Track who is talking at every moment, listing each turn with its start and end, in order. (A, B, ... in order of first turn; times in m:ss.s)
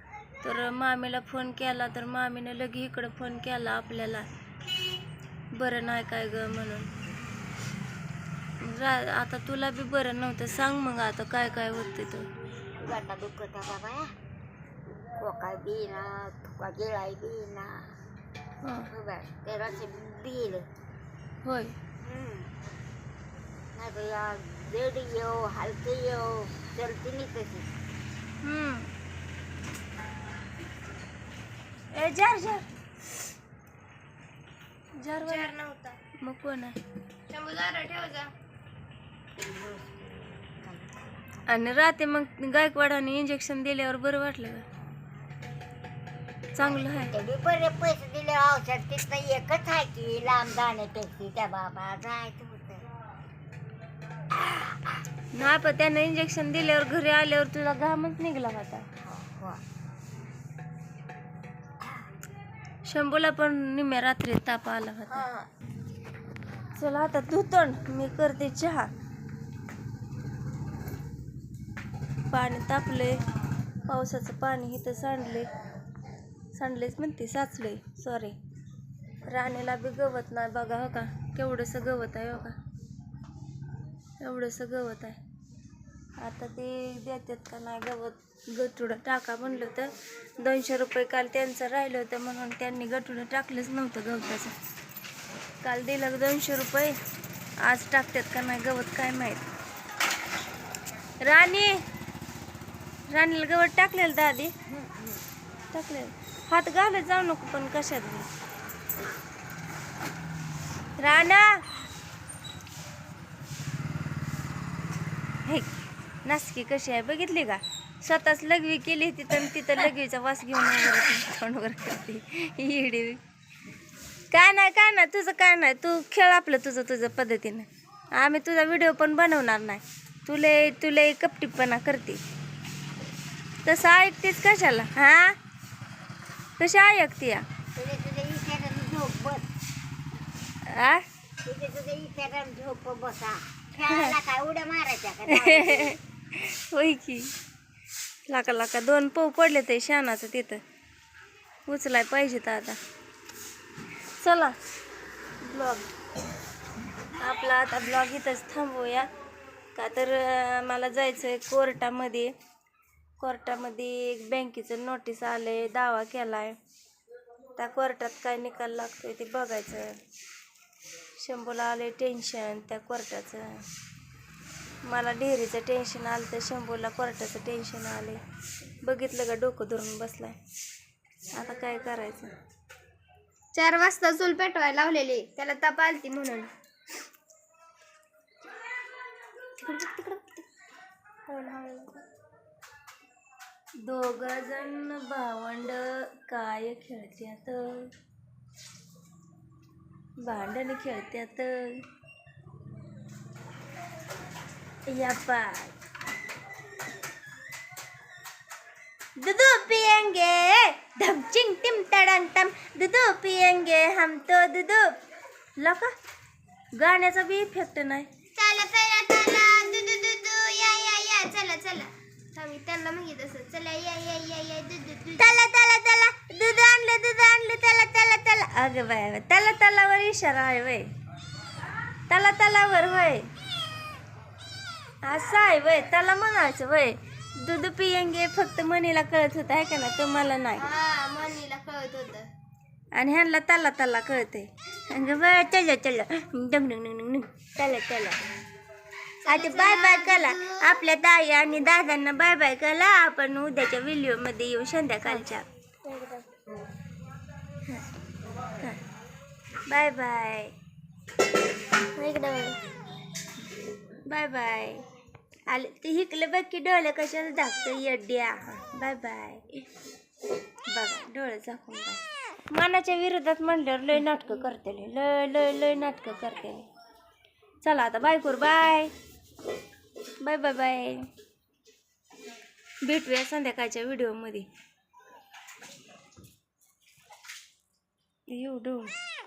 0:00.4-0:04.3 A
0:05.5-0:06.9 A
0:08.6-0:12.3 A
0:12.8-0:14.1 B
0:15.2-0:17.9 B
0:18.6-0:18.9 A
0:18.9-0:20.6 B
0:21.4-0:21.7 A
0:22.0-0:22.5 B
0:23.8-0:27.7 B
0:28.4-0:28.9 A
0:31.9-0:32.7 A
0:35.0-0:35.5 A
0:35.2-0:36.0 C
0:36.2-0:36.8 A
0:37.3-0:38.3 C
0:39.4-0:41.5 B
0:41.5-0:44.6 A
0:44.8-0:45.2 B
0:46.5-0:47.1 A
0:46.6-0:52.8 B
0:55.3-0:58.8 A
0:59.0-0:59.6 B
1:02.8-1:05.2 A
1:05.1-1:05.5 C
1:06.8-1:08.9 A
1:12.3-1:13.2 A
1:13.9-1:15.5 A
1:16.5-1:18.4 A
1:19.3-1:22.5 A
1:24.2-1:25.2 A
1:26.2-1:34.5 A
1:35.6-1:37.0 A
1:37.6-1:39.5 A
1:41.2-1:41.8 A
1:43.1-1:44.5 A
1:44.7-1:45.2 B
1:45.7-1:48.3 A
1:51.0-1:51.6 A
1:55.4-1:55.7 A
1:56.2-2:03.2 A
2:04.3-2:12.2 A
2:13.6-2:15.4 A
2:16.6-2:17.4 A
2:17.8-2:19.5 B
2:20.7-2:21.0 A
2:21.4-2:26.0 B
2:23.8-2:24.2 A
2:25.3-2:27.3 A
2:28.3-2:30.6 A
2:31.7-2:32.8 A
2:34.2-2:34.6 A
2:35.4-2:35.9 A
2:37.2-2:39.1 A
2:39.8-2:42.3 A
2:43.2-2:46.6 A
2:47.6-2:50.0 A
2:51.2-2:53.6 A
2:54.9-2:58.2 A
2:58.8-3:00.4 A
3:01.3-3:02.3 A
3:03.5-3:06.5 C
3:09.6-3:10.4 C
3:11.3-3:12.0 C
3:13.8-3:17.9 A
3:20.2-3:21.5 A
3:24.9-3:25.7 A
3:29.2-3:34.9 A
3:35.6-3:35.9 A
3:36.8-3:38.1 A
3:38.4-3:45.4 C
3:45.2-3:50.9 A
3:52.1-3:53.3 A
3:55.0-4:00.6 A
4:00.6-4:02.3 C
4:02.9-4:08.2 A
4:09.2-4:10.8 C
4:09.2-4:15.4 A
4:15.8-4:16.2 C
4:19.7-4:20.5 A
4:21.9-4:22.6 C
4:24.1-4:24.8 A
4:25.5-4:29.6 A
4:30.7-4:36.7 A
4:37.6-4:38.9 A
4:40.2-4:41.1 A
4:42.8-4:44.5 A
4:48.3-4:48.9 A